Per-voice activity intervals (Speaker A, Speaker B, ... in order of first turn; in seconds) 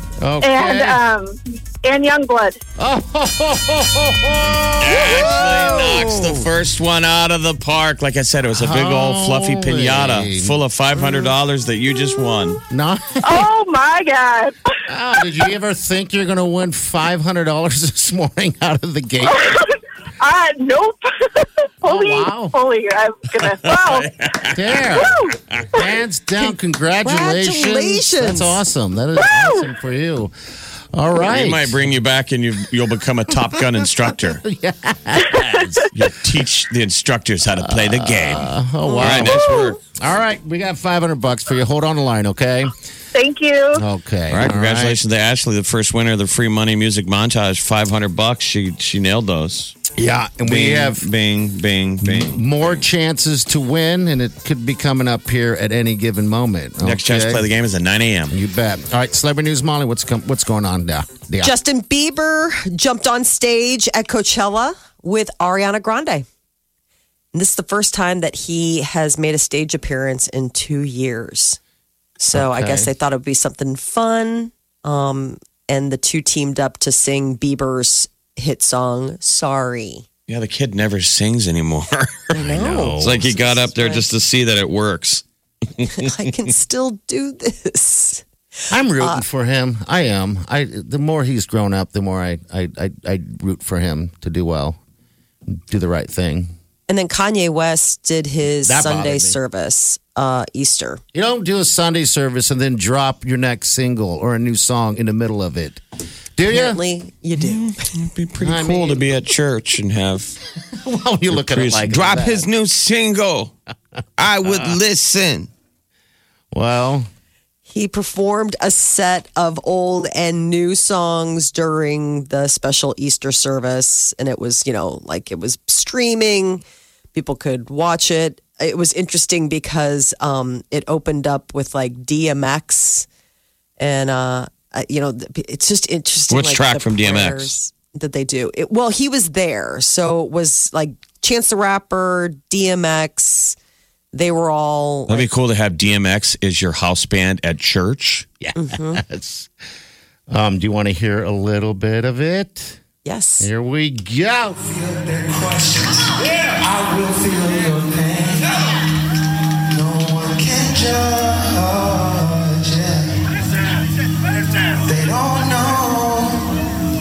Speaker A: 0.2-1.0, 2.8-6.5, 8.5-10.6, 12.7-13.5, 14.9-19.5, 21.9-22.6, 24.5-30.3, 30.9-31.9, 33.6-36.0, 37.6-42.7, 43.7-45.0, 49.9-51.1, 52.0-57.5, 58.3-61.5, 72.3-72.9, 82.3-83.5, 88.7-94.8, 95.5-96.5, 98.6-99.4, 101.1-105.8, 106.4-106.8, 108.4-109.1, 110.7-112.5, 116.5-117.1, 148.4-149.5, 150.3-152.8, 153.4-154.6
Speaker B: 0.4-2.6, 13.2-14.6, 19.2-24.1, 25.0-25.4, 29.2-29.7, 39.2-39.8, 43.1-43.8
Speaker C: 4.8-12.6, 23.4-25.6, 31.1-34.4, 35.9-39.8, 44.3-49.8, 50.4-52.8, 56.8-58.4, 80.3-82.3, 83.0-85.2, 85.8-86.1, 107.4-110.4, 111.3-113.5, 114.2-115.5, 136.3-137.5, 145.1-148.3
Speaker D: 27.0-28.6, 61.4-66.3, 67.3-71.6, 72.2-80.0, 82.3-84.1, 85.9-88.2, 89.0-89.2, 96.9-101.0, 106.5-107.9, 117.7-126.6, 127.1-133.1, 133.8-143.6, 144.1-145.3, 148.6-149.0, 153.1-153.5
Speaker E: 154.6-158.6, 159.7-163.2, 164.9-166.5